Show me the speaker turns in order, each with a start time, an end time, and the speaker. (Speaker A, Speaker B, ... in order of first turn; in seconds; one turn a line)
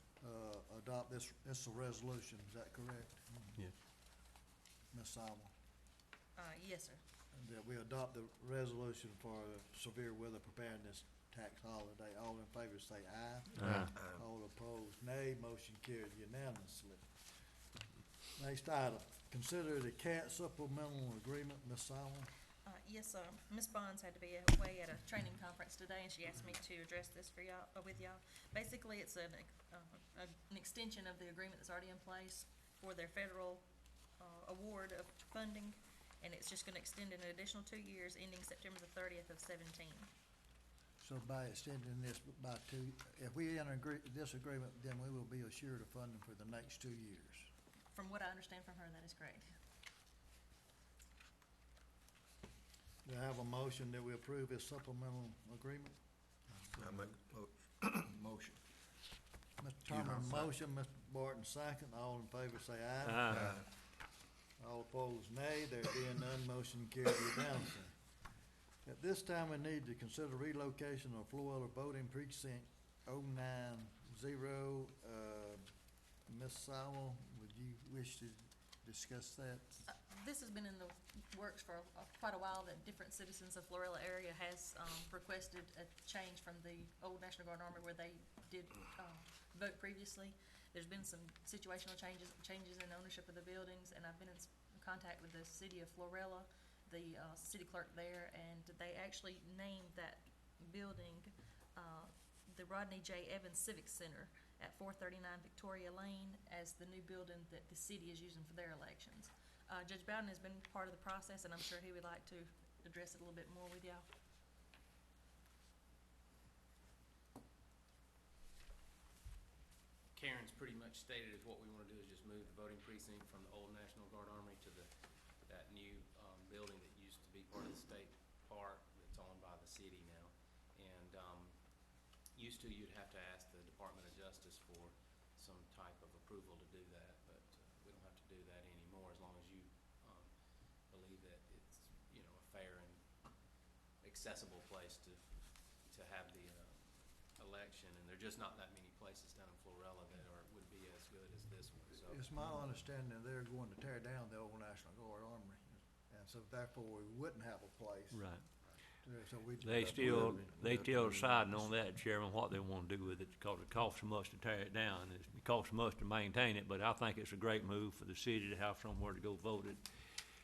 Speaker A: 0.2-3.6
Speaker A: 4.9-5.5
Speaker B: 6.3-7.0
Speaker A: 7.3-17.1
Speaker C: 13.6-13.9
Speaker A: 18.4-22.3
Speaker B: 22.6-33.6
Speaker B: 34.2-40.1
Speaker A: 41.0-47.5
Speaker B: 47.9-49.4
Speaker A: 53.0-55.9
Speaker D: 56.8-58.6
Speaker A: 59.6-63.6
Speaker D: 59.9-60.4
Speaker C: 63.0-63.4
Speaker A: 64.6-68.0
Speaker A: 68.8-75.6
Speaker A: 76.3-79.8
Speaker B: 79.9-114.0
Speaker E: 120.1-124.9
Speaker E: 125.4-131.6
Speaker E: 132.3-143.3
Speaker E: 144.0-152.2
Speaker A: 151.9-158.2
Speaker C: 158.1-158.4
Speaker A: 159.0-160.4
Speaker C: 159.6-169.8
Speaker D: 159.8-161.7